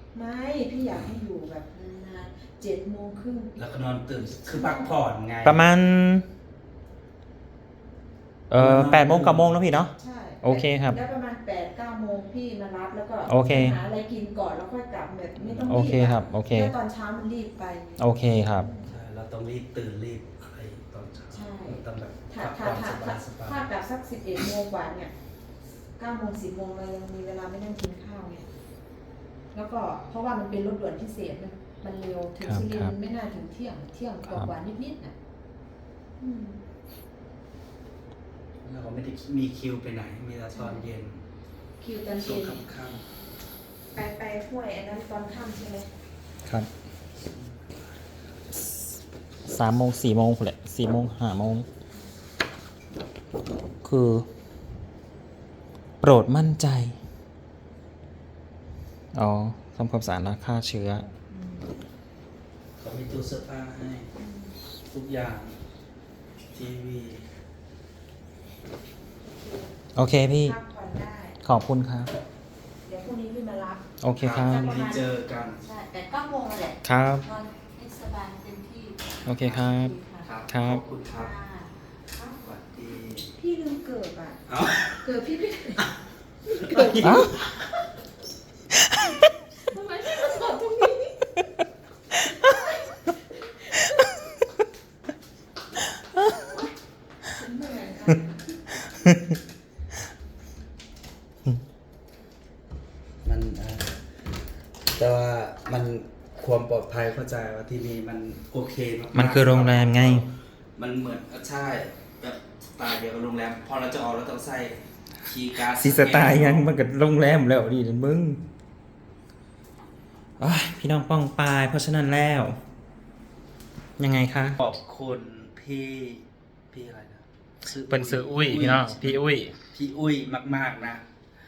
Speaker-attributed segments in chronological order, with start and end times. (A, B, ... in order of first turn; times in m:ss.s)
0:00.1-0:03.6 A
0:03.6-0:05.6 B
0:04.5-0:04.9 A
0:05.4-0:06.3 C
0:08.5-0:09.9 C
0:08.6-0:09.6 B
0:10.0-0:18.0 A
0:10.4-0:11.0 C
0:13.3-0:13.8 C
0:15.4-0:16.0 B
0:15.7-0:16.7 C
0:18.0-0:18.7 C
0:18.6-0:18.9 A
0:18.9-0:23.6 B
0:21.3-0:25.1 A
0:26.0-0:28.5 A
0:29.5-0:35.2 A
0:32.4-0:32.9 C
0:36.2-0:36.6 A
0:38.6-0:41.2 B
0:40.6-0:40.9 A
0:41.8-0:42.6 A
0:42.2-0:43.0 B
0:43.9-0:45.9 A
0:46.4-0:46.7 C
0:49.5-0:51.7 C
0:53.8-0:54.3 C
0:56.0-0:57.0 C
0:59.1-1:01.1 C
1:01.3-1:01.7 A
1:02.8-1:04.1 B
1:04.2-1:04.6 A
1:04.9-1:05.6 B
1:06.5-1:07.3 B
1:09.2-1:09.7 A
1:10.0-1:10.6 C
1:10.4-1:11.4 A
1:11.4-1:12.1 C
1:12.8-1:13.8 A
1:14.0-1:14.7 C
1:14.2-1:15.6 B
1:14.5-1:15.0 A
1:15.6-1:19.0 A
1:16.8-1:17.3 C
1:19.2-1:19.9 C
1:19.4-1:21.3 B
1:19.7-1:20.3 A
1:20.5-1:20.8 C
1:21.1-1:21.7 A
1:22.2-1:23.3 B
1:23.3-1:24.4 A
1:24.5-1:25.1 B
1:25.0-1:25.9 A
1:26.5-1:27.8 A
1:26.6-1:27.0 B
1:27.0-1:27.5 C
1:29.7-1:31.4 A
1:32.1-1:34.1 A
1:36.4-1:36.7 A
1:37.2-1:38.4 A
1:39.0-1:39.3 C
1:43.2-1:43.9 B
1:45.0-1:56.7 B
1:49.1-1:50.3 C
1:55.7-1:58.4 C
2:00.4-2:02.6 C
2:04.0-2:04.6 C
2:04.6-2:09.2 B
2:07.9-2:09.6 C
2:09.7-2:11.0 B